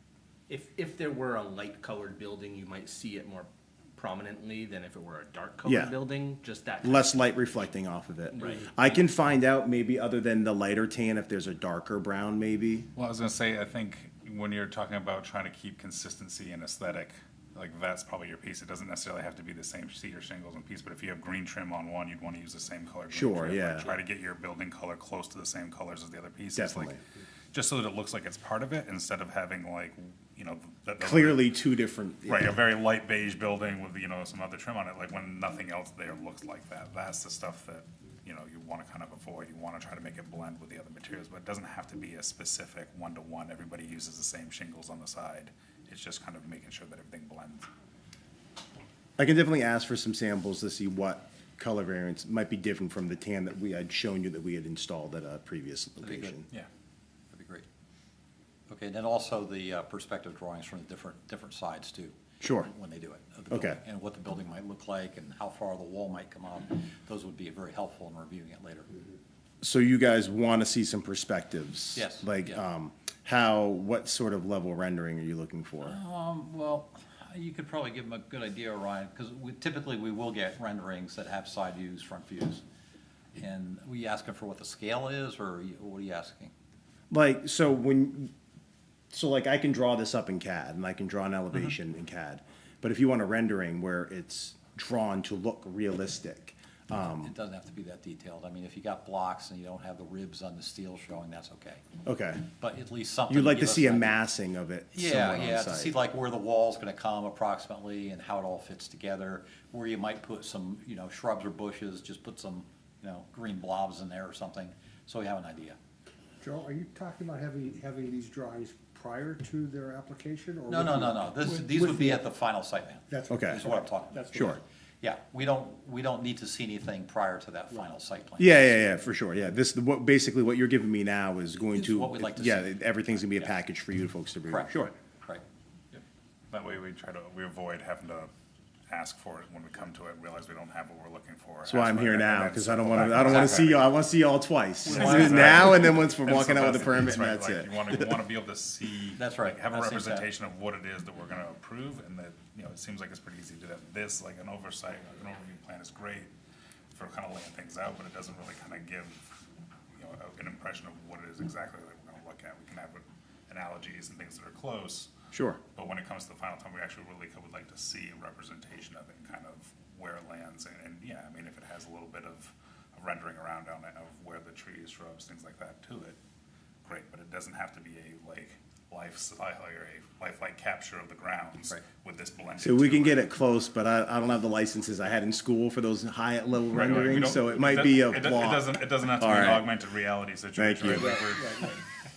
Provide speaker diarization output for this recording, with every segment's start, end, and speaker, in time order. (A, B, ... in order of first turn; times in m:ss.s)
0:00.5-0:07.7 A
0:05.7-0:05.9 B
0:06.8-0:12.9 B
0:08.3-0:08.7 A
0:13.0-0:27.0 C
0:23.1-0:23.9 B
0:26.6-0:27.0 B
0:27.5-0:31.5 C
0:31.0-0:32.6 B
0:32.3-0:47.7 C
0:49.2-0:56.5 B
0:56.0-0:56.4 D
0:57.3-0:57.7 D
0:58.7-1:08.9 D
1:02.4-1:02.7 B
1:03.5-1:03.8 B
1:09.6-1:16.0 B
1:12.0-1:12.6 D
1:15.8-1:22.6 D
1:23.4-1:26.5 D
1:27.1-1:28.3 B
1:29.1-1:37.3 B
1:37.2-1:41.8 D
1:42.0-1:42.4 B
1:42.6-1:44.2 D
1:43.3-1:46.0 B
1:44.9-1:55.8 D
1:56.4-2:02.3 E
2:00.7-2:08.7 D
2:03.1-2:04.6 E
2:03.3-2:03.6 B
2:04.3-2:04.6 B
2:08.4-2:14.9 B
2:11.7-2:13.6 D
2:14.5-2:15.4 D
2:15.9-2:18.3 C
2:18.9-2:23.9 C
2:21.7-2:28.1 B
2:23.1-2:23.8 D
2:24.8-2:26.2 D
2:24.9-2:36.3 C
2:29.2-2:30.3 D
2:36.9-2:39.2 C
2:40.0-2:45.1 C
2:45.3-2:45.6 B
2:45.7-2:56.2 C
2:56.8-3:03.3 C
3:02.6-3:09.7 B
3:06.7-3:11.8 C
3:10.6-3:11.2 B
3:10.9-3:11.8 E